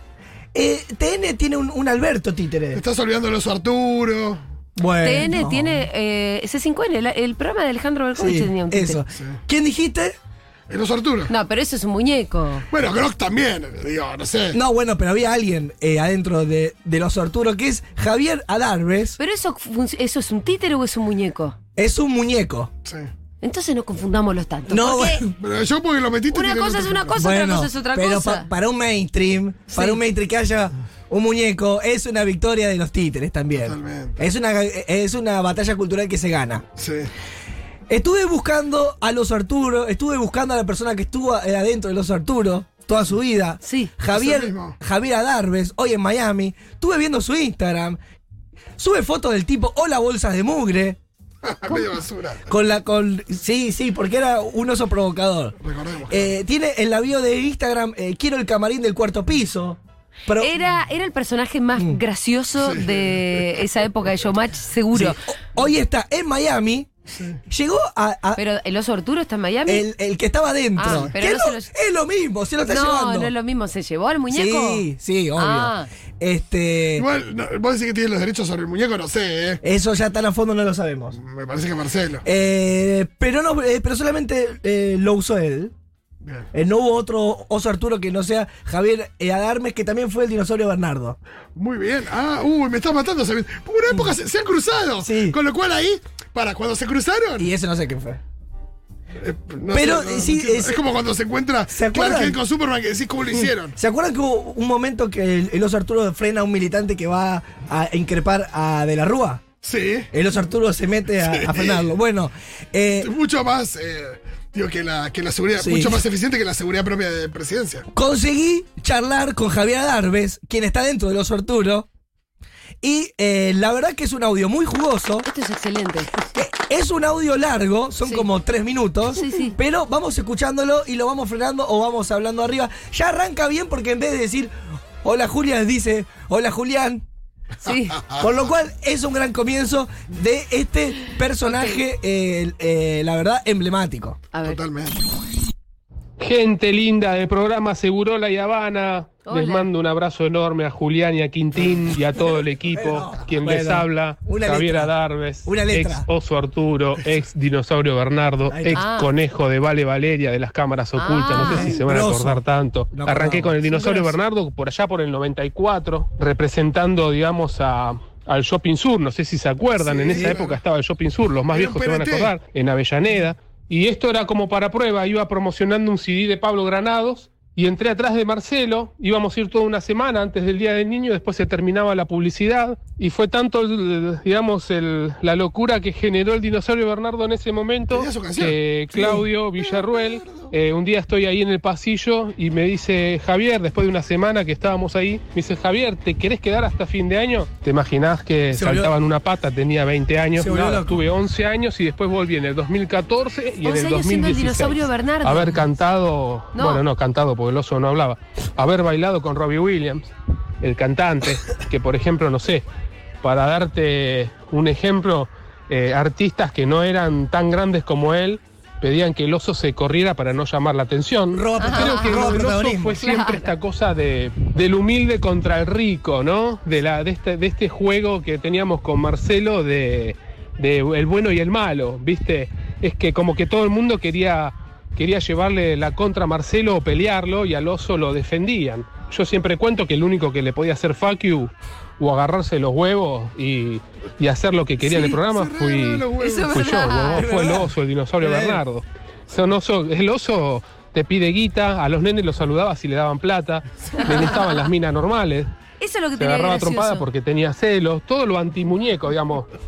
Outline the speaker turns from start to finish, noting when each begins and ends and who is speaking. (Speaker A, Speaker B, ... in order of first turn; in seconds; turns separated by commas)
Speaker A: 0.5-2.8, Speaker B: 2.7-4.4, Speaker A: 4.8-5.9, Speaker C: 5.0-9.0, Speaker A: 8.2-10.2, Speaker B: 10.7-11.3, Speaker C: 11.3-12.7, Speaker B: 12.7-14.6, Speaker A: 14.5-19.2, Speaker C: 19.2-21.5, Speaker A: 21.8-22.7, Speaker B: 22.8-23.1, Speaker C: 23.4-25.2, Speaker A: 24.7-25.3, Speaker B: 25.3-27.2, Speaker C: 26.3-28.5, Speaker A: 27.2-36.6, Speaker C: 29.7-30.0, Speaker B: 33.5-34.2, Speaker B: 36.8-37.1, Speaker A: 37.9-48.0, Speaker C: 43.6-43.9, Speaker B: 44.1-44.8, Speaker A: 48.8-51.0, Speaker B: 51.4-52.5, Speaker A: 52.5-55.5, Speaker B: 55.6-56.3, Speaker A: 56.1-60.5, Speaker C: 60.4-65.2, Speaker A: 61.8-62.0, Speaker B: 62.6-63.2, Speaker A: 64.9-66.9, Speaker B: 67.1-67.4, Speaker A: 67.5-68.4, Speaker C: 68.3-69.8, Speaker A: 69.7-73.3, Speaker C: 70.8-71.7, Speaker C: 72.6-75.9, Speaker A: 74.3-77.1, Speaker B: 76.9-79.6, Speaker A: 79.6-81.2, Speaker B: 81.2-82.2, Speaker A: 82.2-85.7, Speaker B: 86.2-86.5, Speaker A: 86.5-91.2, Speaker B: 91.5-97.5, Speaker A: 95.0-95.4, Speaker A: 97.4-98.2, Speaker B: 99.2-103.8, Speaker A: 99.7-100.8, Speaker A: 101.7-102.4, Speaker A: 103.8-109.4, Speaker B: 109.6-110.1, Speaker A: 110.1-113.1, Speaker B: 111.2-111.8, Speaker B: 113.0-117.8, Speaker A: 115.6-116.0, Speaker A: 117.9-121.9, Speaker A: 122.8-125.3, Speaker C: 125.2-126.2, Speaker A: 126.3-137.0, Speaker C: 129.1-129.6, Speaker C: 137.6-138.0, Speaker A: 138.2-144.2, Speaker C: 141.5-141.8, Speaker C: 144.3-144.6, Speaker B: 144.4-145.0, Speaker D: 146.2-210.1, Speaker C: 149.3-149.7, Speaker A: 152.7-156.1, Speaker A: 158.5-158.8, Speaker C: 158.7-159.1, Speaker C: 160.9-161.8, Speaker A: 161.3-164.1, Speaker B: 169.8-170.6, Speaker A: 170.1-170.3, Speaker B: 171.5-172.3, Speaker B: 187.9-188.6, Speaker A: 188.9-189.2, Speaker B: 189.6-190.5, Speaker A: 198.5-198.9, Speaker A: 200.3-201.0, Speaker C: 203.6-205.7, Speaker C: 206.5-206.8, Speaker D: 210.6-212.7, Speaker D: 213.2-255.5, Speaker A: 221.3-223.0, Speaker C: 221.6-222.2, Speaker C: 223.0-223.5, Speaker B: 244.8-246.8, Speaker C: 246.2-247.3, Speaker A: 247.1-248.6, Speaker C: 254.0-254.6, Speaker C: 255.8-257.1, Speaker D: 256.1-259.5